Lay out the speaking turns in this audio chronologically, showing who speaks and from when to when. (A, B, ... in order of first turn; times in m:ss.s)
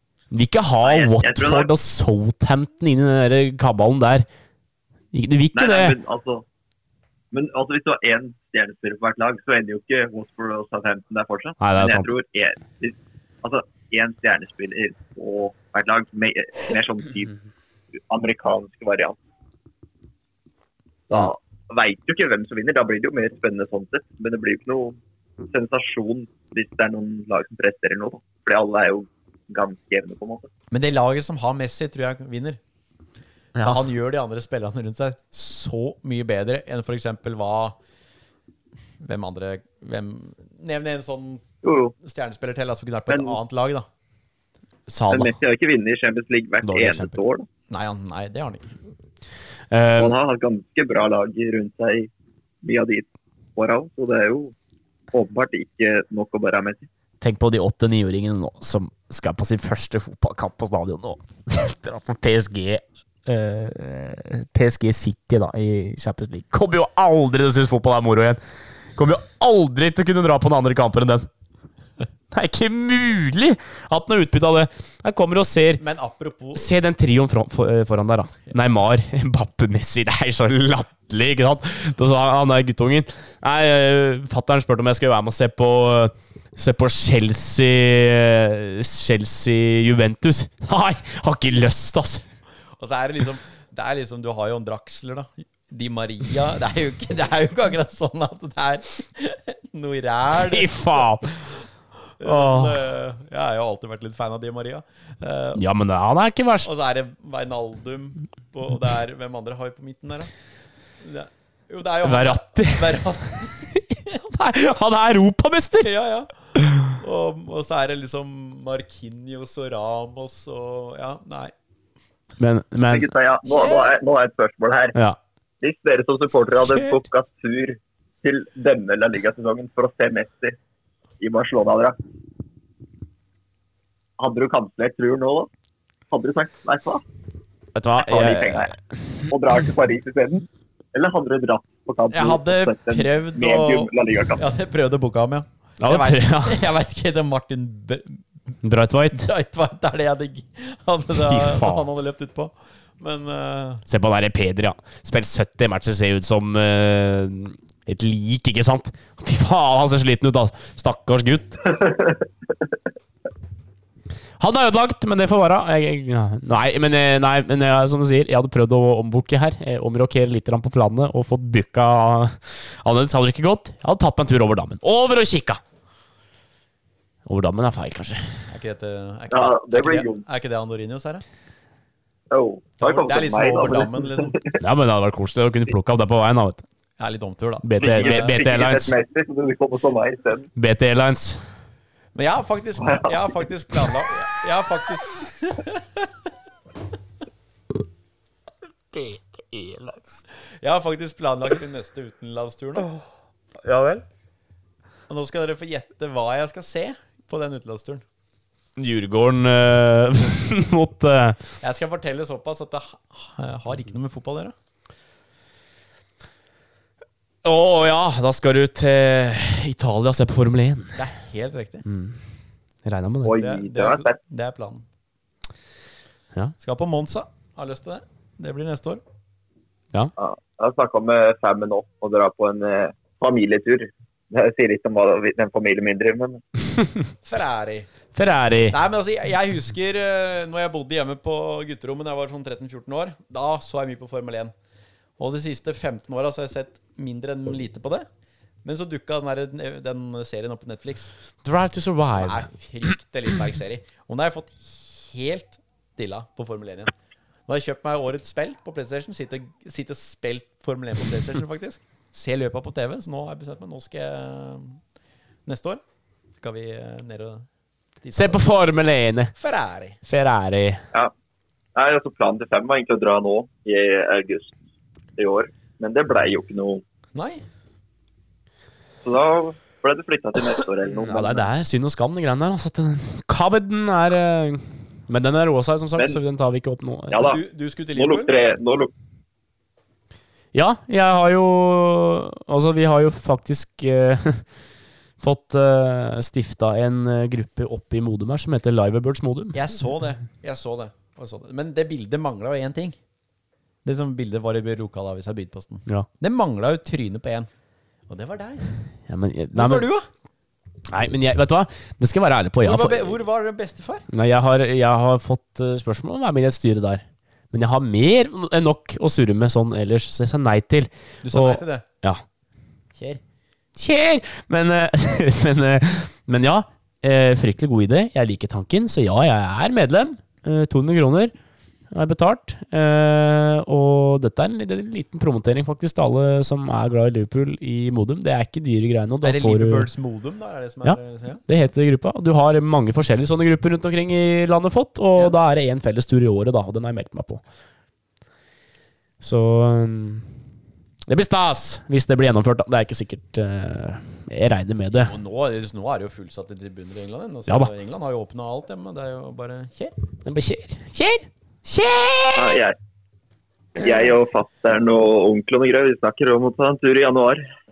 0:00.3-0:04.3 A
0:00.8-0:01.7 B
0:05.1-0:06.0 A
0:05.6-0:06.4 B
0:07.3-0:17.3 B
0:11.6-0:12.1 A
0:18.1-0:19.2 B
0:21.1-0:25.0 B
0:25.5-0:30.5 B
0:30.7-0:32.6 C
0:33.6-0:33.8 A
0:33.6-0:37.8 C
0:39.0-0:41.4 C
0:41.6-0:42.0 B
0:42.0-0:43.9 C
0:43.1-0:43.4 B
0:44.9-0:45.4 A
0:45.1-0:47.5 B
0:46.6-0:47.2 A
0:47.7-0:48.7 C
0:49.7-0:50.2 A
0:50.0-0:52.1 B
0:52.6-0:54.5 B
0:55.1-0:56.9 B
0:57.2-1:08.4 A
1:09.0-1:11.3 A
1:12.3-1:15.8 A
1:15.8-1:16.7 C
1:16.6-1:32.2 A
1:32.8-1:41.1 C
1:40.3-1:41.4 A
1:42.2-1:45.6 C
1:42.2-1:42.8 A
1:45.6-1:46.7 A
1:46.6-1:50.3 C
1:51.0-1:53.8 C
1:52.0-1:53.0 A
1:53.7-1:55.9 A
1:55.8-1:56.3 C
1:56.8-2:01.5 C
2:02.4-2:03.1 A
2:02.9-2:05.0 B
2:03.5-2:04.0 C
2:05.6-2:10.6 B
2:06.6-2:07.0 A
2:11.2-2:12.0 B
2:14.2-2:15.5 B
2:16.1-2:17.0 B
2:17.8-2:18.7 A
2:18.0-2:18.7 B
2:19.3-2:24.4 B
2:22.1-2:28.2 C
2:25.8-2:26.6 A
2:28.6-2:29.3 A
2:29.1-2:33.8 C
2:31.2-2:31.9 A
2:33.9-2:41.6 A
2:41.7-2:42.2 B
2:44.4-2:55.6 A
2:57.3-2:58.3 A
2:58.5-3:01.2 C
2:59.3-3:00.2 B
3:02.3-3:04.6 B
3:02.8-3:04.4 C
3:04.6-3:06.6 A
3:07.0-3:08.4 C
3:07.6-3:08.9 A
3:07.8-3:10.5 B
3:10.6-3:11.4 A
3:12.2-3:16.1 C
3:12.8-3:13.2 B
3:18.9-3:20.2 A
3:20.6-3:22.9 C
3:23.6-3:24.0 A
3:25.1-3:28.0 C
3:28.8-3:31.5 A
3:31.6-3:34.5 C
3:37.4-3:41.0 A
3:41.0-3:41.9 C
3:41.8-3:42.2 A
3:42.8-3:43.4 A
3:43.2-3:44.2 B
3:43.4-3:44.9 C
3:46.6-3:49.0 C
3:50.2-3:56.4 B
3:57.2-3:57.9 C
3:58.1-3:58.8 A
3:58.7-4:04.5 C
4:05.2-4:08.1 C
4:08.6-4:11.1 C
4:11.4-4:12.5 A
4:12.1-4:16.9 C
4:17.5-4:24.8 C
4:25.5-4:25.8 C
4:26.4-4:27.5 C
4:28.0-4:28.4 C
4:28.1-4:29.3 A
4:29.4-4:30.0 C
4:30.0-4:30.8 A
4:31.8-4:34.5 B
4:35.2-4:36.8 B
4:37.1-4:37.4 C
4:39.0-4:41.5 B
4:41.0-4:47.3 A
4:47.1-4:47.4 B
4:47.2-4:48.3 C
4:48.0-4:48.9 B
4:50.5-4:54.4 A
4:55.2-4:59.6 A
4:59.5-5:03.0 C
5:03.8-5:07.5 C
5:08.1-5:08.7 C
5:09.1-5:09.9 A
5:09.5-5:10.1 C
5:10.9-5:13.2 A
5:12.6-5:14.1 C
5:14.1-5:22.2 A
5:21.2-5:21.8 C
5:23.0-5:23.2 C
5:23.8-5:31.3 A
5:31.9-5:39.9 A
5:39.2-5:41.4 C
5:40.8-5:47.4 A
5:49.2-5:50.3 A
5:51.1-5:55.1 A
5:54.9-6:00.0 C
6:00.2-6:02.6 A
6:02.4-6:02.8 B
6:03.8-6:07.4 B